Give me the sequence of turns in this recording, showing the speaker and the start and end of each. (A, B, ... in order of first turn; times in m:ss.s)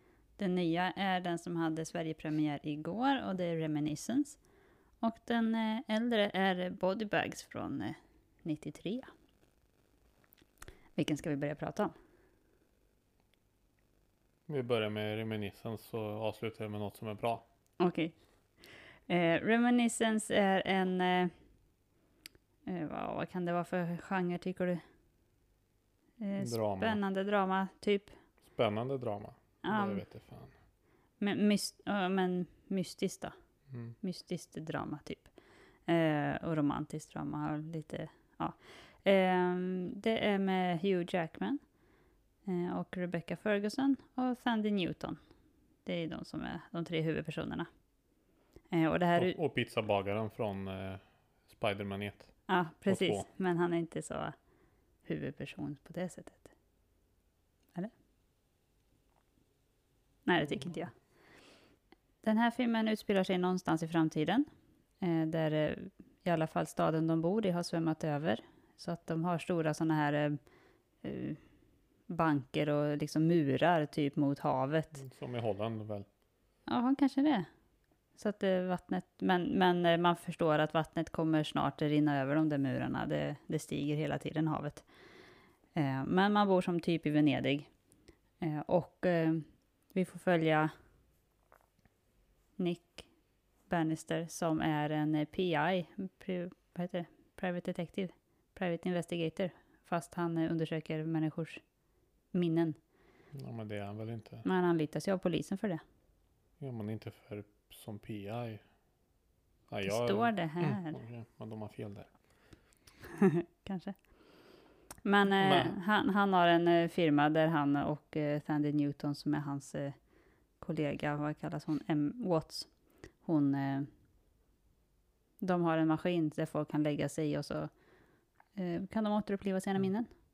0:00.4-0:04.4 A
0:05.0-0:09.1 A
0:11.0-0:11.9 A
0:14.5-0:17.4 B
0:17.8-0:18.1 A
0:19.1-0:21.3 A
0:22.7-0:24.8 A
0:26.2-0:28.1 A
0:26.4-0:27.0 B
0:28.5-0:30.5 B
0:29.6-0:30.0 A
0:31.2-0:33.3 A
0:34.0-0:35.3 A
0:35.9-0:41.6 A
0:42.5-0:45.2 A
0:45.8-0:47.7 A
0:48.7-0:49.4 A
0:49.2-0:52.3 B
0:52.5-0:54.4 A
0:52.9-0:53.2 B
0:55.1-0:56.5 A
1:00.3-1:00.9 A
1:02.2-1:04.5 A
1:05.0-1:10.4 A
1:11.0-1:11.4 A
1:12.1-1:15.0 A
1:15.0-1:16.1 B
1:16.7-1:17.5 A
1:18.2-1:24.8 A
1:25.8-1:27.7 A
1:28.4-1:30.7 A
1:32.6-1:33.1 A
1:33.7-1:41.6 A
1:42.3-1:42.8 A
1:43.3-1:44.4 B
1:44.4-1:45.8 A
1:46.6-1:48.6 B
1:49.7-1:52.1 B
1:49.8-1:51.0 A
1:53.1-1:54.0 A
1:55.0-2:00.0 A
1:55.4-1:55.8 B
2:00.6-2:02.7 A
2:03.2-2:03.9 A
2:05.4-2:07.7 A
2:08.6-2:10.1 A